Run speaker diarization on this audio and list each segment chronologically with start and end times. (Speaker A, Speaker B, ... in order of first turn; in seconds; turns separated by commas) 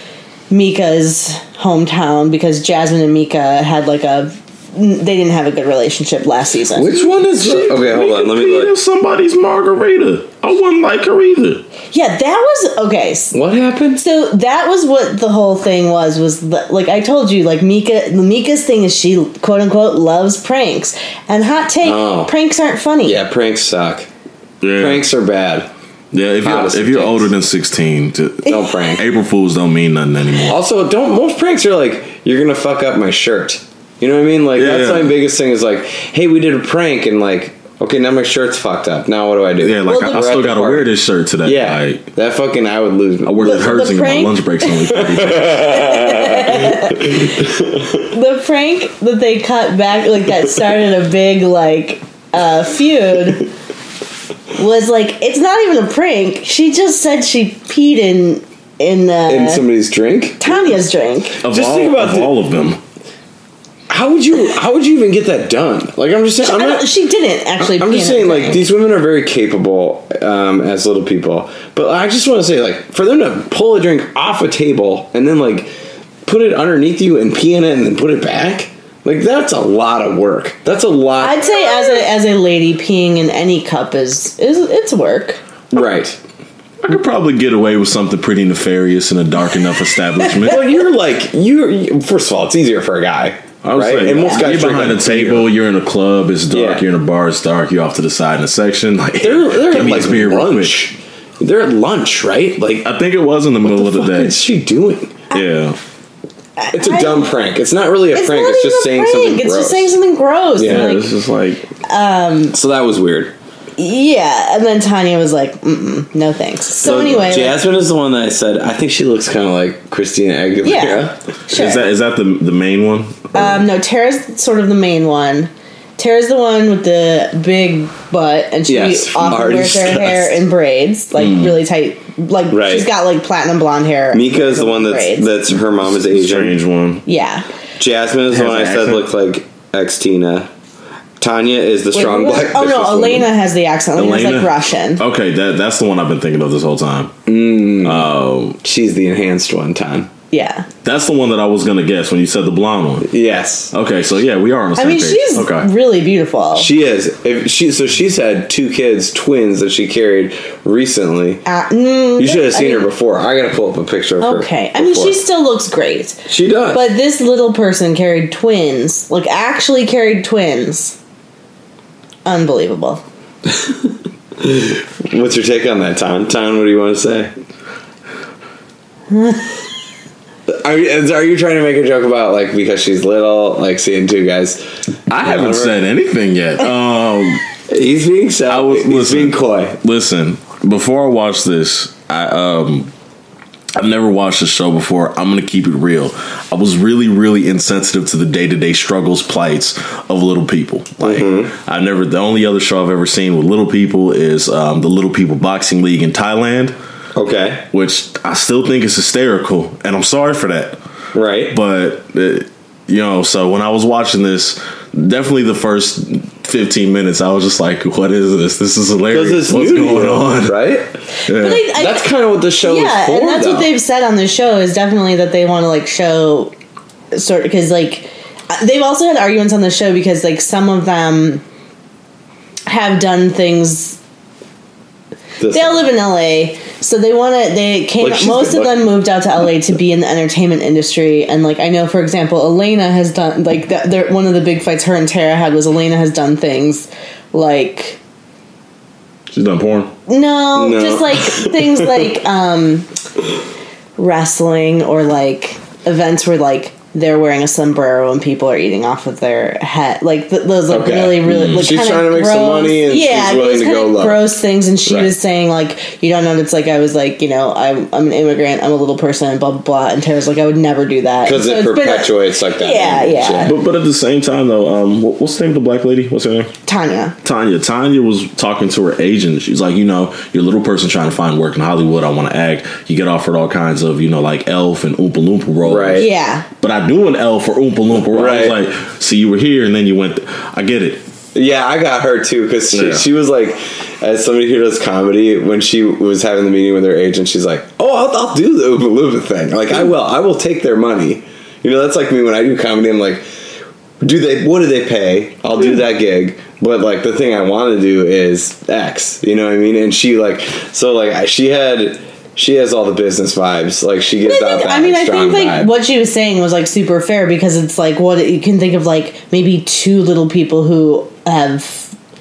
Speaker A: 0.5-7.0, Speaker B: 6.7-8.7, Speaker C: 7.1-11.6, Speaker A: 11.9-13.4, Speaker B: 13.3-14.0, Speaker A: 13.9-23.2, Speaker B: 21.8-22.3, Speaker B: 23.0-24.1, Speaker C: 24.6-25.1, Speaker B: 24.8-25.7, Speaker C: 26.1-30.6, Speaker B: 26.4-27.3, Speaker B: 28.4-29.0, Speaker B: 30.4-40.9, Speaker C: 34.6-35.1, Speaker C: 39.6-42.1, Speaker A: 39.9-40.3, Speaker B: 41.4-43.7, Speaker C: 43.2-45.9, Speaker A: 43.4-45.0, Speaker B: 44.9-47.9, Speaker A: 45.5-47.5, Speaker A: 48.0-53.5, Speaker A: 54.5-59.6, Speaker B: 59.3-60.7, Speaker A: 60.4-61.4, Speaker C: 61.4-62.8, Speaker B: 61.4-62.3, Speaker B: 63.9-66.9, Speaker A: 66.4-68.6, Speaker B: 67.6-75.7, Speaker B: 76.2-82.1, Speaker A: 81.2-85.4, Speaker B: 85.7-86.2, Speaker C: 86.8-90.6, Speaker B: 90.4-95.5, Speaker C: 93.6-100.7, Speaker B: 96.5-96.8, Speaker B: 99.2-102.9, Speaker C: 102.8-104.4, Speaker B: 103.6-105.3, Speaker C: 105.3-105.8, Speaker A: 106.6-107.3, Speaker B: 106.7-109.9, Speaker A: 108.1-111.1, Speaker B: 110.6-110.9, Speaker C: 110.6-111.7, Speaker A: 111.8-112.6, Speaker B: 112.5-113.3, Speaker A: 113.8-117.6, Speaker B: 116.8-121.2, Speaker A: 120.6-121.8, Speaker C: 121.5-123.5, Speaker A: 123.3-135.3, Speaker B: 128.7-130.4, Speaker C: 131.2-131.6, Speaker B: 132.5-132.9, Speaker B: 134.1-136.6, Speaker C: 135.8-137.0, Speaker A: 137.1-137.4, Speaker B: 137.8-140.5, Speaker C: 138.3-139.1, Speaker B: 141.2-143.3, Speaker A: 141.9-145.0, Speaker C: 143.9-147.2, Speaker B: 147.3-148.1, Speaker C: 147.8-148.6, Speaker B: 148.6-150.1, Speaker A: 150.3-150.7, Speaker C: 150.8-153.1, Speaker B: 153.1-153.7, Speaker C: 153.7-155.7, Speaker A: 154.8-156.7, Speaker B: 156.6-161.4, Speaker A: 161.4-162.9, Speaker B: 162.2-165.2, Speaker A: 164.2-171.0, Speaker B: 166.3-166.9, Speaker A: 172.2-173.0, Speaker B: 173.5-173.9, Speaker B: 174.4-177.3, Speaker A: 179.1-179.4, Speaker B: 180.5-185.7, Speaker C: 185.1-187.4, Speaker B: 187.7-189.8, Speaker C: 188.5-192.9, Speaker C: 193.7-206.7, Speaker B: 201.0-201.5, Speaker B: 207.1-207.6, Speaker C: 207.7-210.8, Speaker B: 211.1-211.6, Speaker C: 211.5-220.7, Speaker B: 219.1-220.9, Speaker A: 221.3-226.5, Speaker C: 221.3-221.7, Speaker B: 221.7-223.7, Speaker A: 227.1-231.4, Speaker A: 232.7-234.0, Speaker B: 235.4-235.8, Speaker A: 235.5-248.0, Speaker B: 238.0-238.9, Speaker C: 249.3-249.9, Speaker A: 250.1-252.9, Speaker B: 250.6-251.9, Speaker A: 254.0-273.6, Speaker B: 260.7-264.3, Speaker C: 261.3-261.6, Speaker B: 264.9-265.1, Speaker B: 271.2-273.6, Speaker C: 273.4-276.5, Speaker A: 276.6-277.1, Speaker C: 277.2-286.1, Speaker B: 285.6-286.1, Speaker A: 286.0-286.4, Speaker C: 286.6-291.0, Speaker B: 288.1-288.6, Speaker B: 291.4-303.2, Speaker C: 292.7-293.1, Speaker B: 304.0-315.7, Speaker A: 314.2-321.9